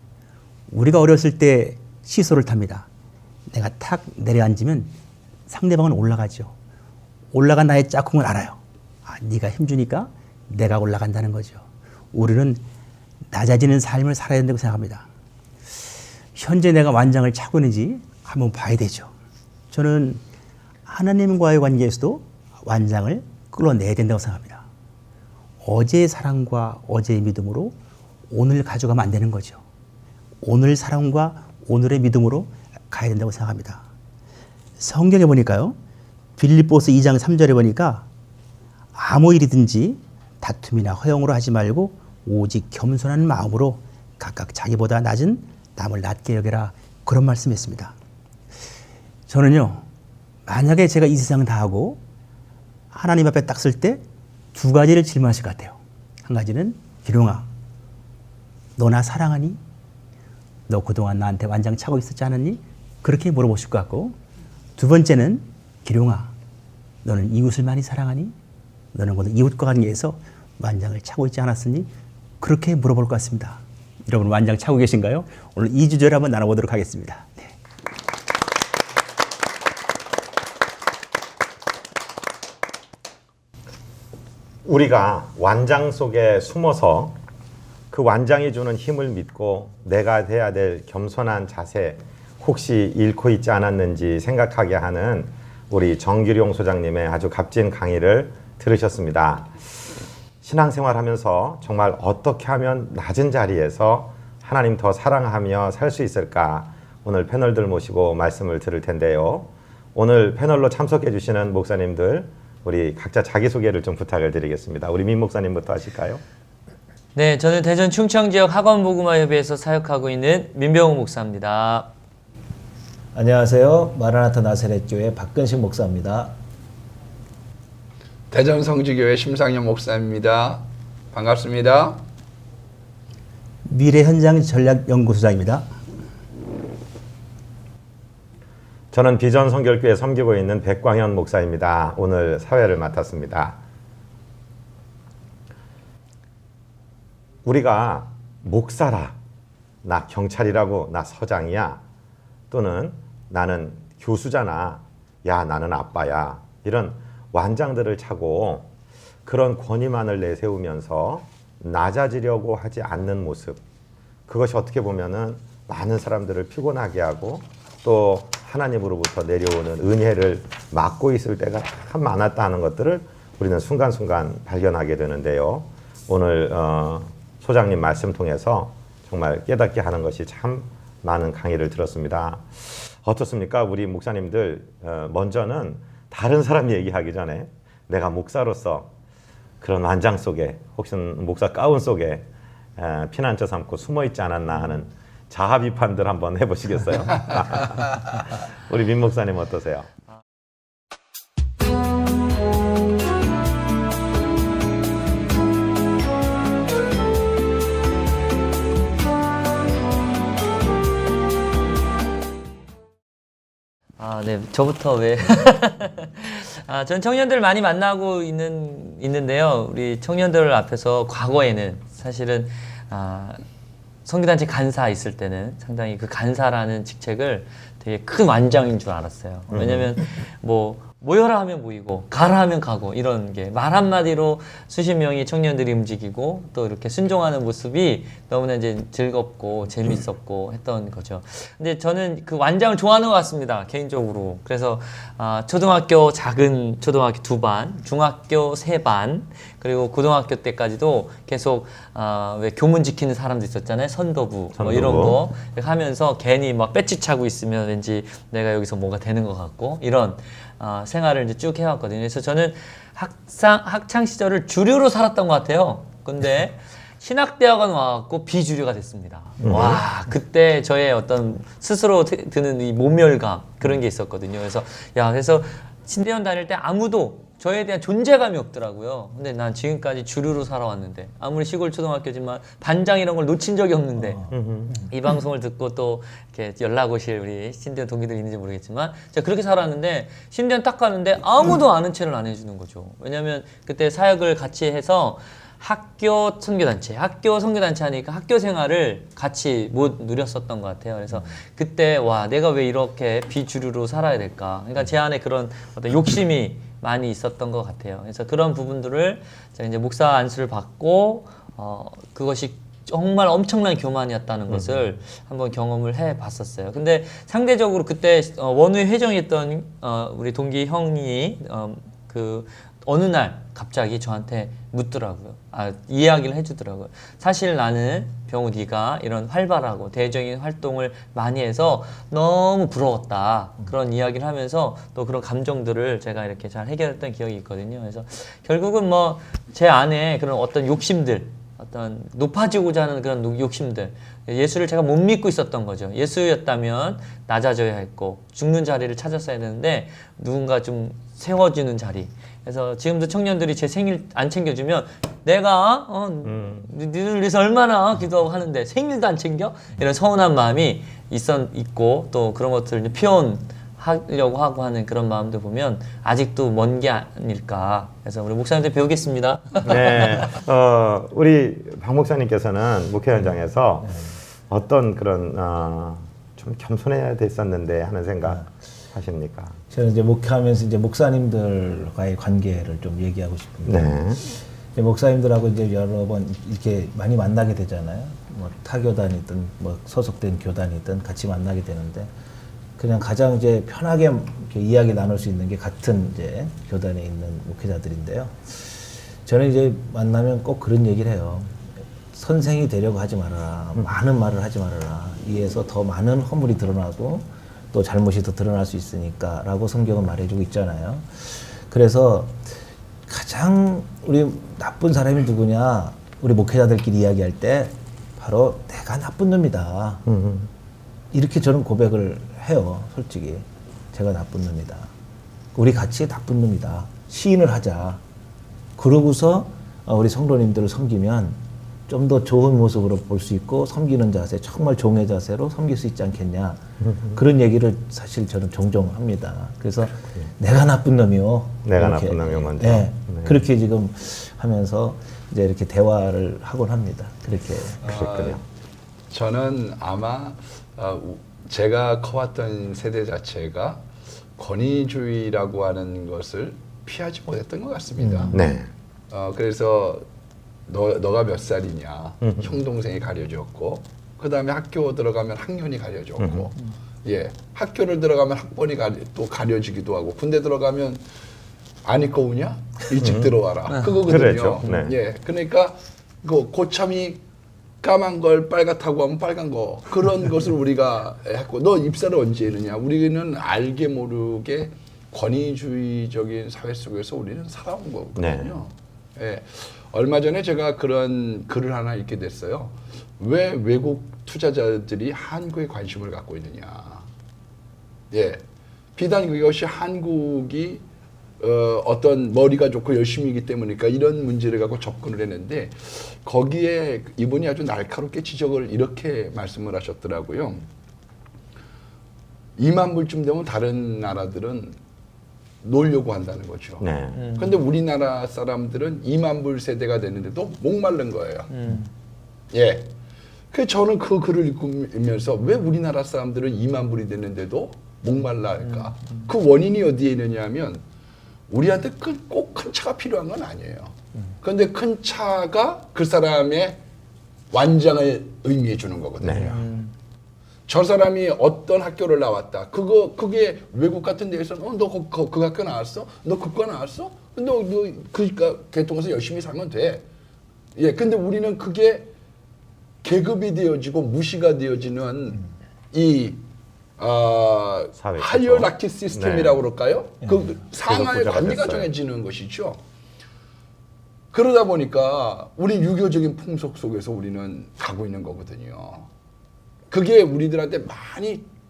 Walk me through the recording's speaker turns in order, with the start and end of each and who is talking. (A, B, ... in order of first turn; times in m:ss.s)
0:00.7-0:02.9 A
0:03.5-0:04.9 A
0:05.5-0:06.5 A
0:07.3-0:12.6 A
0:13.3-0:15.0 A
0:16.3-0:19.1 A
0:19.7-0:20.2 A
0:20.8-0:24.6 A
0:25.6-0:27.8 A
0:28.3-0:29.6 A
0:30.4-0:33.8 A
0:34.8-0:35.8 A
0:36.4-0:38.0 A
0:38.9-0:47.9 A
0:49.3-0:49.8 A
0:50.4-0:52.0 A
0:52.9-0:57.5 A
0:58.8-0:59.6 A
1:00.7-1:04.1 A
1:04.8-1:06.3 A
1:07.0-1:08.3 A
1:08.9-1:11.9 A
1:12.4-1:17.5 A
1:24.6-1:27.2 B
1:27.9-1:39.7 B
1:40.4-1:56.2 B
1:57.1-2:01.9 C
2:03.1-2:06.4 D
2:08.3-2:12.0 E
2:13.6-2:15.7 A
2:18.9-2:23.6 B
2:27.4-2:29.2 B
2:29.8-2:31.8 B
2:32.5-2:38.7 B
2:39.2-2:43.6 B
2:44.3-3:08.9 B
3:09.6-3:19.9 B
3:34.0-3:43.4 C
3:44.0-4:44.2 C
3:49.5-3:49.8 B
4:14.6-4:15.2 B
4:29.4-4:29.8 B
4:44.3-4:44.8 B
4:44.8-6:09.8 C
5:14.5-5:14.9 B
5:56.2-5:56.7 B
6:09.6-6:19.6 B
6:13.8-6:14.1 D
6:19.7-6:32.1 D
6:23.6-6:24.2 B
6:32.8-7:00.0 D
7:00.1-7:00.5 B
7:01.1-7:04.9 D
7:05.5-7:08.0 D
7:08.8-7:27.8 D
7:16.8-7:17.1 B
7:21.6-7:23.4 B
7:27.8-7:28.4 E
7:27.8-7:28.4 B
7:29.1-7:33.8 E
7:34.4-7:38.4 E
7:38.0-7:38.4 D
7:38.3-7:38.7 B
7:39.1-7:40.0 E
7:40.7-7:51.0 E
7:42.2-7:42.6 B
7:46.2-7:46.5 B
7:51.8-7:57.2 E
7:53.0-7:53.4 B
7:54.0-7:55.0 B
7:57.8-8:17.0 E
8:08.2-8:08.6 B
8:18.1-8:18.4 E
8:19.0-8:20.8 E
8:21.4-8:30.6 E
8:32.6-8:34.8 E
8:35.6-8:41.5 E
8:36.8-8:37.2 B
8:37.1-8:37.6 C
8:41.5-8:41.9 C
8:42.5-8:42.9 E
8:43.5-8:50.8 E
8:51.5-8:56.8 E
8:57.5-8:59.6 E
8:59.2-8:59.5 B
8:59.4-8:59.9 C
9:00.7-9:10.0 E
9:10.8-9:12.1 E
9:13.0-9:16.4 E
9:17.0-9:22.8 E
9:18.0-9:19.6 B
9:20.8-9:21.9 B
9:24.3-9:29.1 E
9:29.9-9:31.5 E